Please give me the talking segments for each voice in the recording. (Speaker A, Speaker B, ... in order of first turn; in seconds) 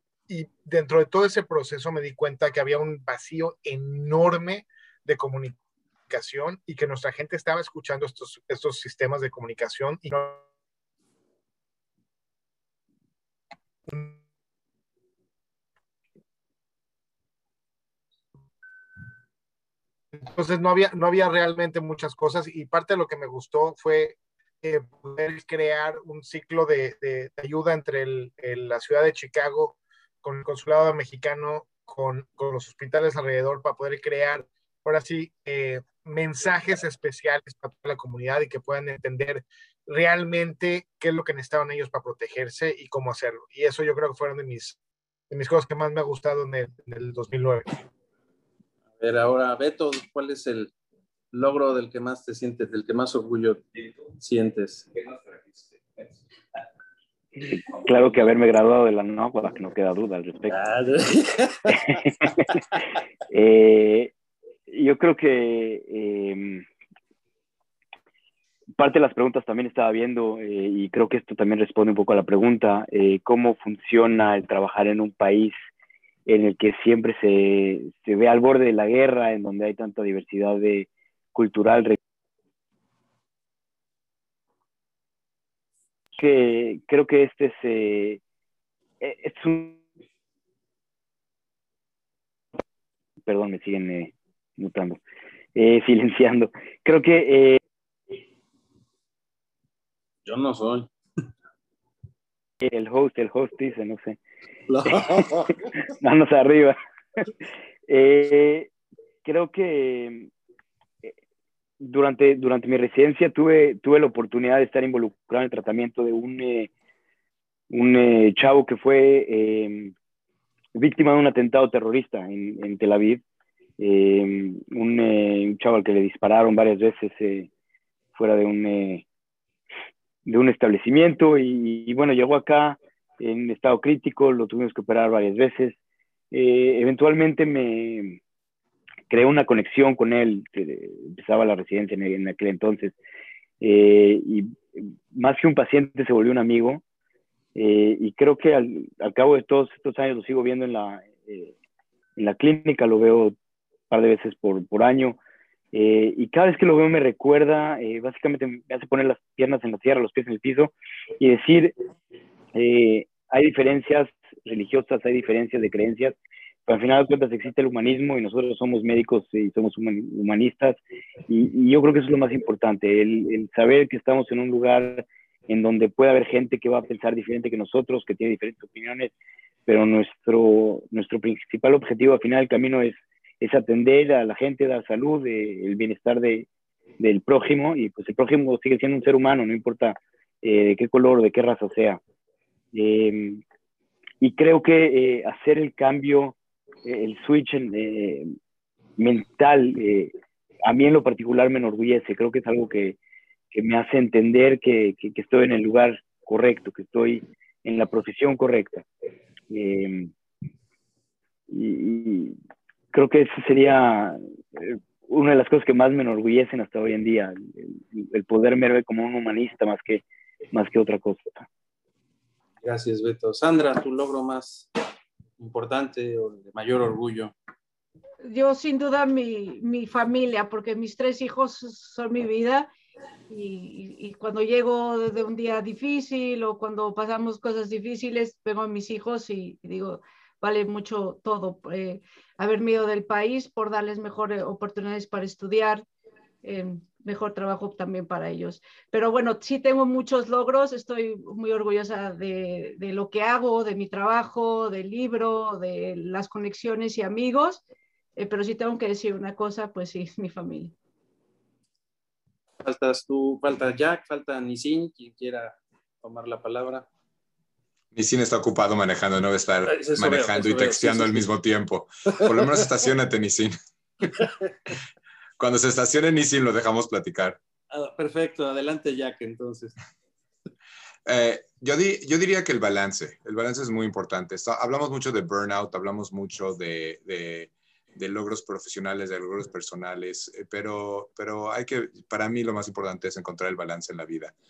Speaker A: 0.3-5.6, 6.1-10.4, 13.9-14.2, 20.1-44.8, 45.3-47.8
Speaker B: 49.0-50.7, 51.3-53.6, 54.2-54.9, 60.5-61.9, 100.2-100.9, 104.7-105.5, 222.6-224.7, 225.4-227.3, 262.6-266.9, 269.6-271.2, 277.7-279.8
Speaker C: 57.5-60.6, 61.7-62.5, 63.3-64.1, 64.7-66.6, 68.8-75.5, 76.3-82.0, 86.1-88.2, 89.0-89.8, 93.2-95.0, 95.5-97.6, 102.6-104.2, 106.0-106.8, 107.9-108.7, 109.2-110.3, 111.8-116.7, 117.7-119.9, 120.7-123.2, 123.8-127.5, 128.1-129.0, 130.2-135.8, 136.3-138.2, 139.1-142.9, 143.6-146.8, 147.6-151.5, 152.2-153.3, 153.9-155.2, 155.7-161.7, 162.5-166.2, 166.7-179.1, 179.7-186.4, 187.0-192.0, 192.7-193.4, 194.2-198.3, 199.0-200.1, 200.6-203.0, 203.5-208.8, 209.5-210.1, 211.5-212.3, 212.9-221.4
Speaker D: 228.2-232.7, 233.3-245.8, 246.4-257.6, 258.2-260.7
Speaker E: 267.9-273.6, 275.4-277.4, 281.1-294.3